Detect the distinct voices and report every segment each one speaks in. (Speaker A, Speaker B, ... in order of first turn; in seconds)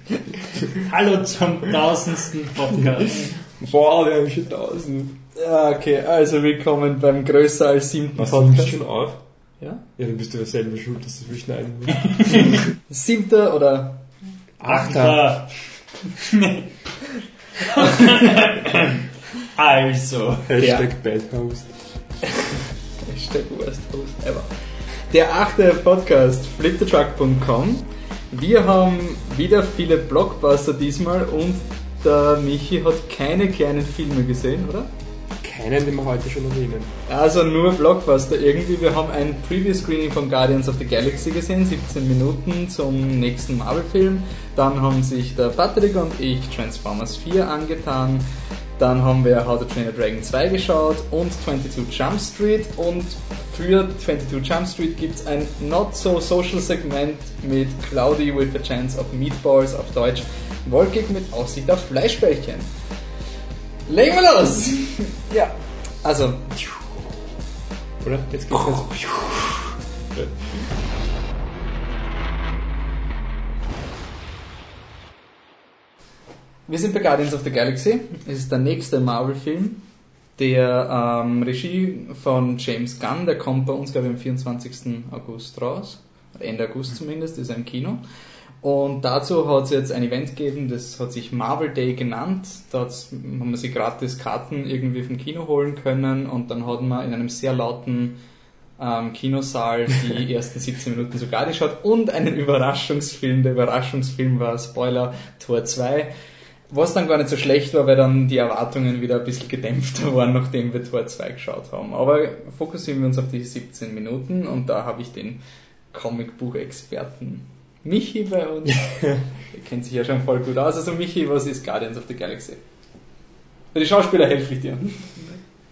Speaker A: 0.7-3.5, 14.6-17.0, 17.6-20.7
Speaker B: 3.5-5.2, 8.2-12.5, 14.6-15.5, 20.5-22.3, 35.4-36.9, 66.5-66.8, 68.0-70.7, 118.9-119.2
Speaker C: 5.3-9.8, 12.8-14.2, 20.6-20.9, 23.0-34.9, 37.1-48.2, 48.8-62.7, 63.9-66.4, 76.7-88.0, 88.6-98.2, 98.8-106.1, 106.7-123.2, 123.7-125.5